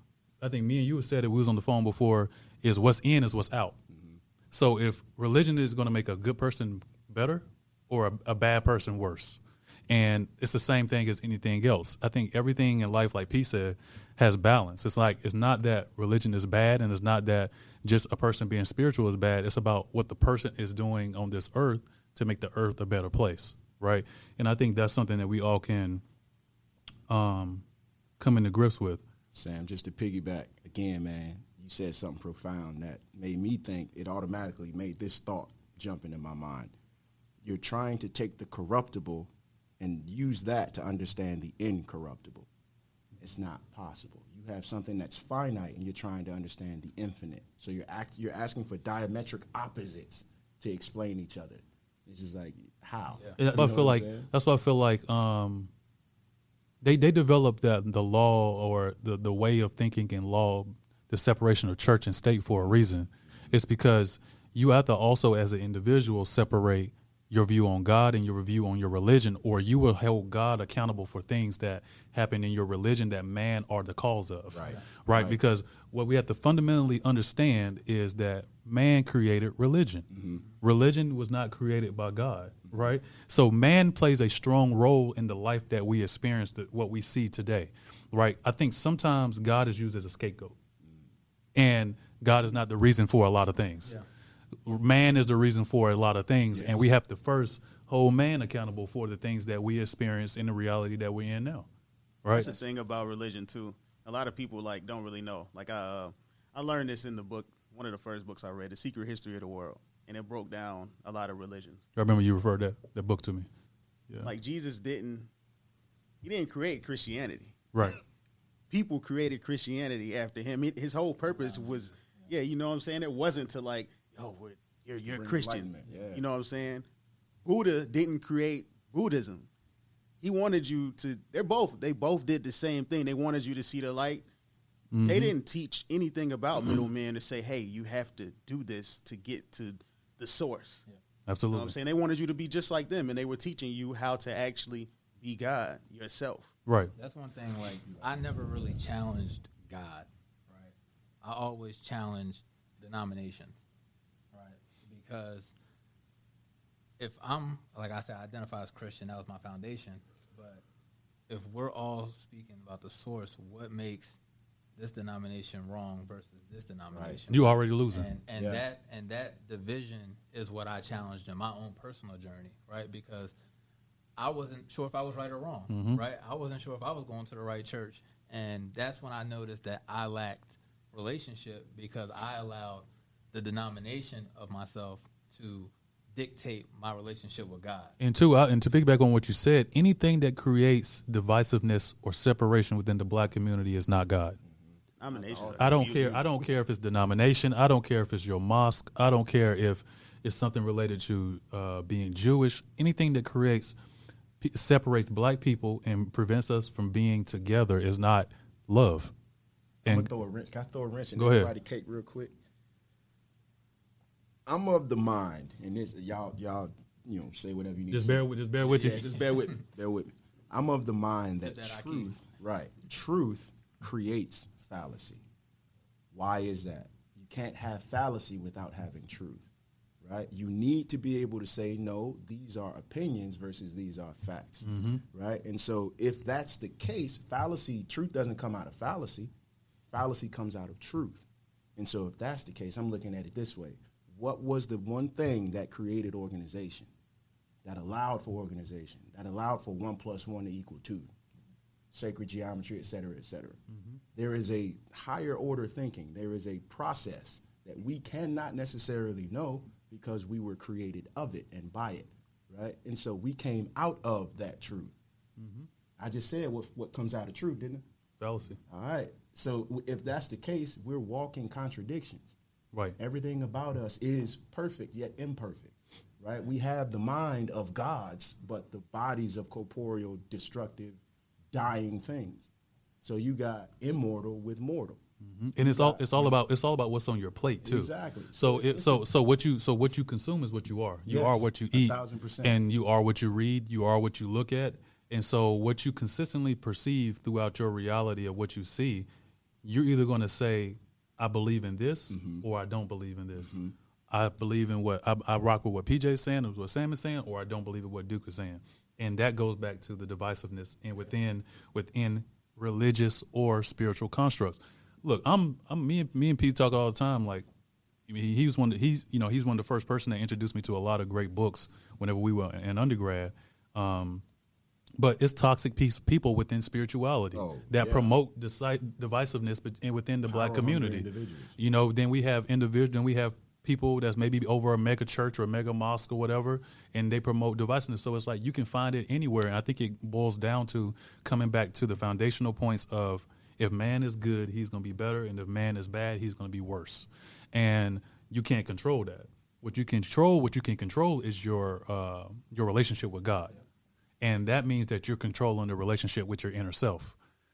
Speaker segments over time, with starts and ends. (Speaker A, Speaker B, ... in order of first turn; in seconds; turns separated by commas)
Speaker A: 0.4-3.8, Speaker B: 3.9-4.2, Speaker A: 4.5-26.0, Speaker A: 27.1-27.6, Speaker A: 28.2-29.0, Speaker B: 29.3-36.7, Speaker B: 37.4-42.5, Speaker B: 43.2-54.3, Speaker A: 53.4-55.7, Speaker A: 56.8-80.1, Speaker B: 74.5-75.4, Speaker B: 80.1-80.4, Speaker A: 80.6-90.6, Speaker B: 82.7-82.9, Speaker B: 90.8-91.1, Speaker A: 91.5-94.0, Speaker A: 94.6-101.7, Speaker B: 96.5-96.9, Speaker A: 102.2-102.5, Speaker B: 102.3-102.7, Speaker C: 102.3-111.8, Speaker A: 112.0-113.5, Speaker C: 114.2-115.3, Speaker C: 116.2-117.5, Speaker A: 117.7-118.0, Speaker C: 118.7-126.8, Speaker D: 121.4-122.3, Speaker B: 125.0-126.2, Speaker C: 127.4-129.5, Speaker C: 130.2-134.2, Speaker A: 134.9-135.3, Speaker C: 135.1-140.8, Speaker A: 141.3-141.7, Speaker C: 141.5-146.5, Speaker A: 146.7-146.9, Speaker D: 146.9-153.6, Speaker B: 147.8-148.8, Speaker D: 154.3-155.5, Speaker D: 157.0-160.6, Speaker D: 161.3-164.2, Speaker D: 164.8-173.3, Speaker B: 166.9-167.2, Speaker A: 167.3-168.1, Speaker B: 168.3-168.6, Speaker D: 174.2-187.9, Speaker A: 175.7-176.0, Speaker A: 188.0-194.4, Speaker B: 194.4-196.4, Speaker C: 195.0-196.2, Speaker A: 195.6-203.7, Speaker A: 204.4-209.1, Speaker A: 209.8-210.1, Speaker B: 209.8-212.3, Speaker A: 211.2-211.5, Speaker B: 214.4-225.2, Speaker A: 217.9-219.3, Speaker D: 218.6-219.6, Speaker D: 221.4-222.2, Speaker B: 226.1-229.5, Speaker B: 230.0-239.3, Speaker A: 234.6-235.0, Speaker B: 239.9-246.9, Speaker B: 247.6-251.1, Speaker B: 251.9-253.6, Speaker A: 253.7-254.0, Speaker B: 254.1-264.9, Speaker A: 265.4-265.7, Speaker B: 266.0-267.8, Speaker A: 268.2-268.6, Speaker B: 268.7-272.4, Speaker B: 273.0-281.0, Speaker B: 281.5-282.5, Speaker B: 283.0-285.0, Speaker A: 285.2-299.1, Speaker B: 285.6-286.4, Speaker B: 287.6-289.1, Speaker B: 291.1-292.6, Speaker A: 299.6-303.6, Speaker B: 302.1-302.4, Speaker B: 303.4-303.7, Speaker A: 304.1-317.4, Speaker A: 318.1-324.2, Speaker A: 325.0-353.6, Speaker B: 327.3-328.1, Speaker B: 330.3-331.6, Speaker A: 354.2-357.1